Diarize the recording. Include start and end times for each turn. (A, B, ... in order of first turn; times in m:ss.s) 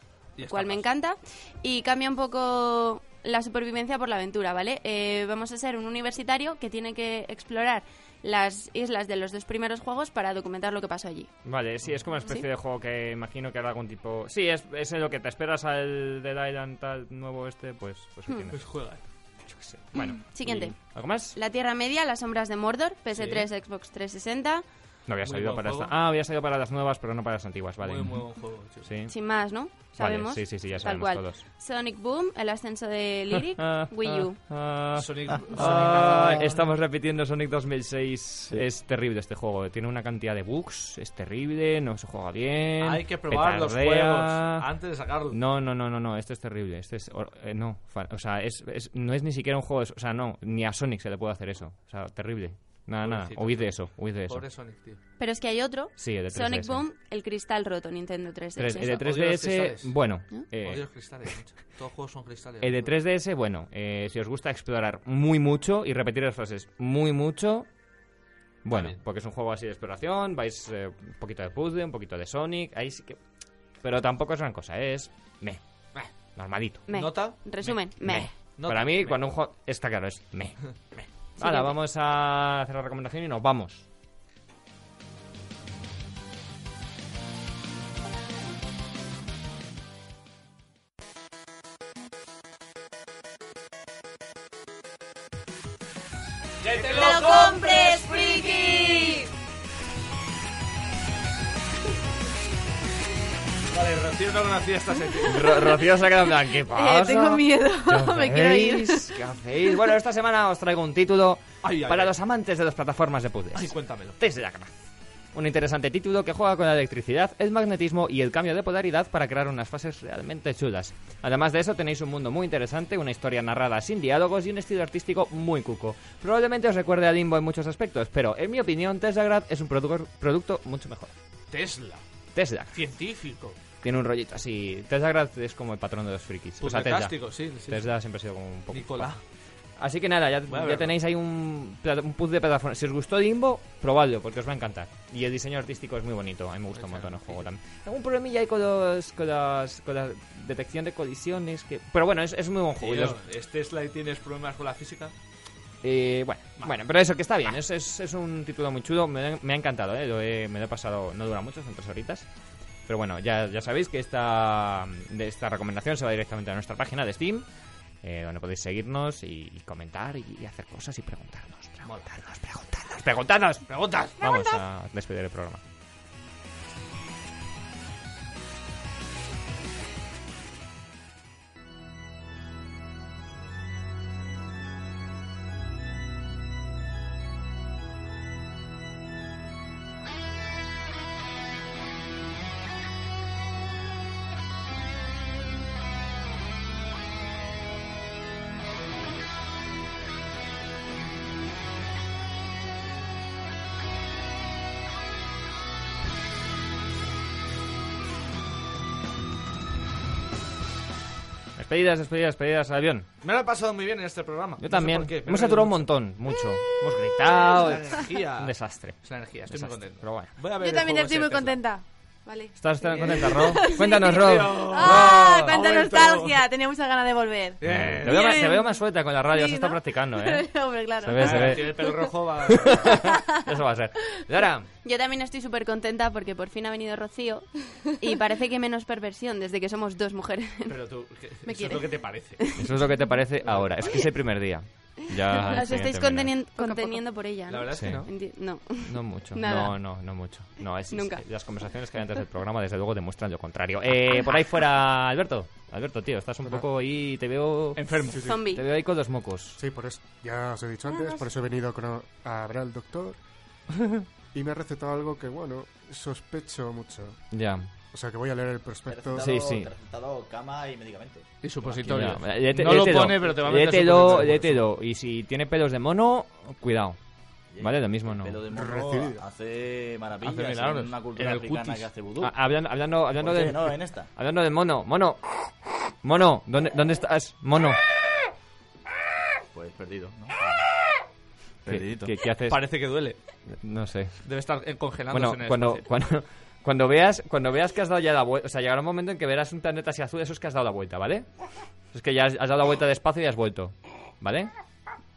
0:00.4-0:00.9 A
0:00.5-0:11.4 B
0:11.4-0:18.7 C
0:18.5-0:19.0 A
0:19.5-0:21.4 C
0:20.0-0:24.6 B
0:23.1-0:23.5 A
0:25.1-0:28.3 C
0:25.2-0:25.9 A
0:27.8-0:28.9 A
0:28.8-0:29.1 C
0:29.1-0:34.4 B
0:29.7-0:31.4 C
0:33.6-0:44.7 C
0:34.9-0:36.6 A
0:35.3-0:36.3 D
0:42.8-0:45.4 A
0:45.3-0:54.5 C
0:53.0-0:55.0 A
0:55.2-0:59.0 B
0:56.0-0:56.8 C
0:58.6-1:00.8 C
0:58.8-1:02.9 A
1:02.6-1:07.7 C
1:08.6-1:13.2 C
1:08.7-1:09.0 A
1:13.8-1:15.6 C
1:16.4-1:16.9 C
1:16.9-1:18.3 B
1:16.9-1:19.2 A
1:18.0-1:20.8 C
1:20.7-1:21.1 A
1:21.4-1:23.9 C
1:21.4-1:21.8 B
1:36.6-1:38.0 A
1:36.8-1:39.3 B
1:43.7-1:45.5 A
1:45.2-1:54.7 C
1:46.8-1:49.1 E
1:51.6-1:52.1 A
1:53.6-1:54.2 A
1:55.3-2:11.2 C
2:11.5-2:12.0 A
2:12.3-2:12.8 C
2:12.7-2:13.6 A
2:13.8-2:19.2 C
2:16.6-2:18.0 A
2:18.7-2:19.2 A
2:19.8-2:33.2 C
2:20.5-2:21.0 A
2:26.7-2:27.5 A
2:32.8-2:35.1 A
2:35.8-2:42.3 C
2:42.9-2:47.5 C
2:48.0-2:55.6 C
2:53.7-2:54.2 A
3:31.6-3:33.1 C
3:33.2-3:35.8 A
3:34.6-3:40.3 C
3:37.3-3:41.6 A
3:40.6-3:52.0 E
3:42.6-3:44.7 C
3:42.9-3:46.4 A
3:47.6-3:48.3 A
3:47.6-3:54.7 C
3:51.2-3:53.1 A
3:53.0-3:53.3 E
3:54.8-4:00.8 B
4:00.7-4:02.5 A
4:01.5-4:02.2 E
4:02.6-4:06.4 C
4:03.4-4:04.1 A
4:05.5-4:09.8 B
4:06.6-4:07.1 E
4:07.5-4:08.1 A
4:07.7-4:08.1 C
4:08.8-4:19.6 C
4:10.9-4:11.2 B
4:17.8-4:18.4 A
4:18.2-4:18.7 B
4:19.6-4:23.2 F
4:24.3-4:27.4 F
4:27.3-4:27.7 C
4:27.9-4:29.3 F
4:28.9-4:32.2 D
4:29.2-4:29.7 C
4:31.4-4:34.6 A
4:31.9-4:37.0 C
4:37.5-4:42.4 D
4:37.6-4:38.4 C
4:38.5-4:39.2 F
4:40.2-4:41.6 A
4:41.2-4:45.3 C
4:43.2-4:44.1 D
4:46.0-4:47.8 C
4:49.5-4:50.6 D
4:51.6-4:52.1 D
4:51.7-4:52.8 C
4:52.5-4:53.2 A
4:53.5-4:54.3 C
4:54.2-4:55.9 A
4:55.1-5:04.5 C